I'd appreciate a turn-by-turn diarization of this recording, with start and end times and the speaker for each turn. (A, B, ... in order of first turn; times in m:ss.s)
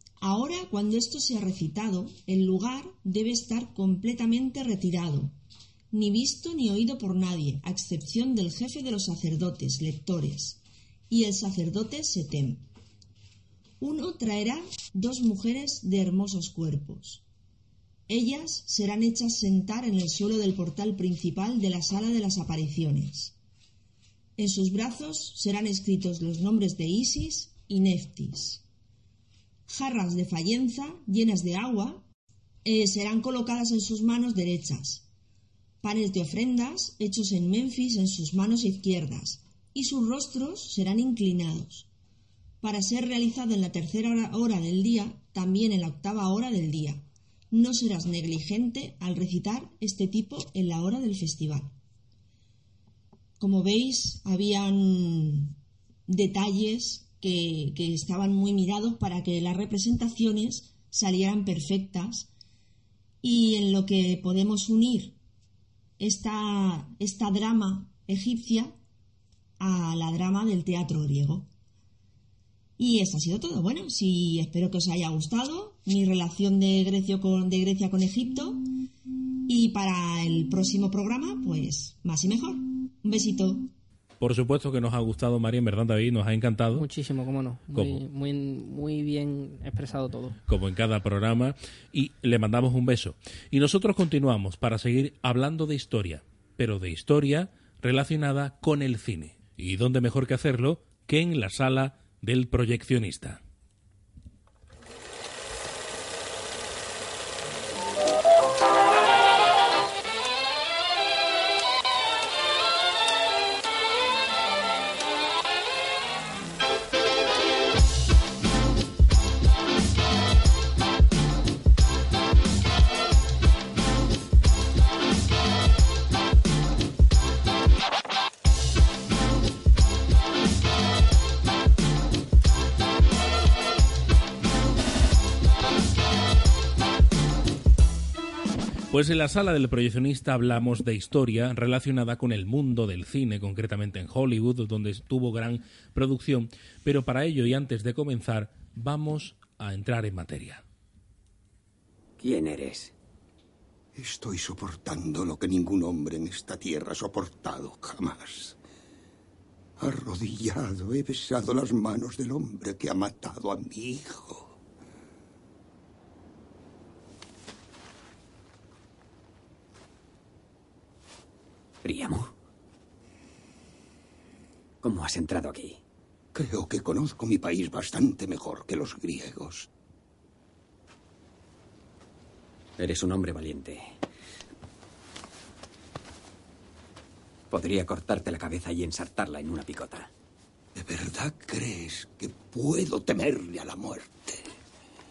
0:00.2-0:05.3 A
0:05.9-0:12.6 A
0:13.8-0:17.2 A
0:18.1-0:23.3 A
0:24.4-0:28.6 A
0:29.7-0:32.0 A
0:32.6-0:35.0 A
0:35.8-0:41.9 A
0:42.6-0:51.7 A
0:53.4-0:55.6 A
0:56.1-1:02.3 A
1:03.2-1:05.2 A
1:06.0-1:08.7 A
1:09.6-1:11.5 A
1:12.8-1:18.6 A
1:19.5-1:23.7 A
1:24.2-1:26.8 B
1:26.7-1:30.4 C
1:27.7-1:28.0 B
1:30.5-1:43.4 B
2:18.9-2:30.6 B
2:32.2-2:32.9 D
2:33.9-2:38.6 E
2:39.8-2:44.5 E
2:51.8-2:52.3 D
2:54.8-2:55.8 D
2:56.3-2:59.7 E
3:02.8-3:03.9 D
3:07.5-3:10.1 D
3:10.7-3:14.5 E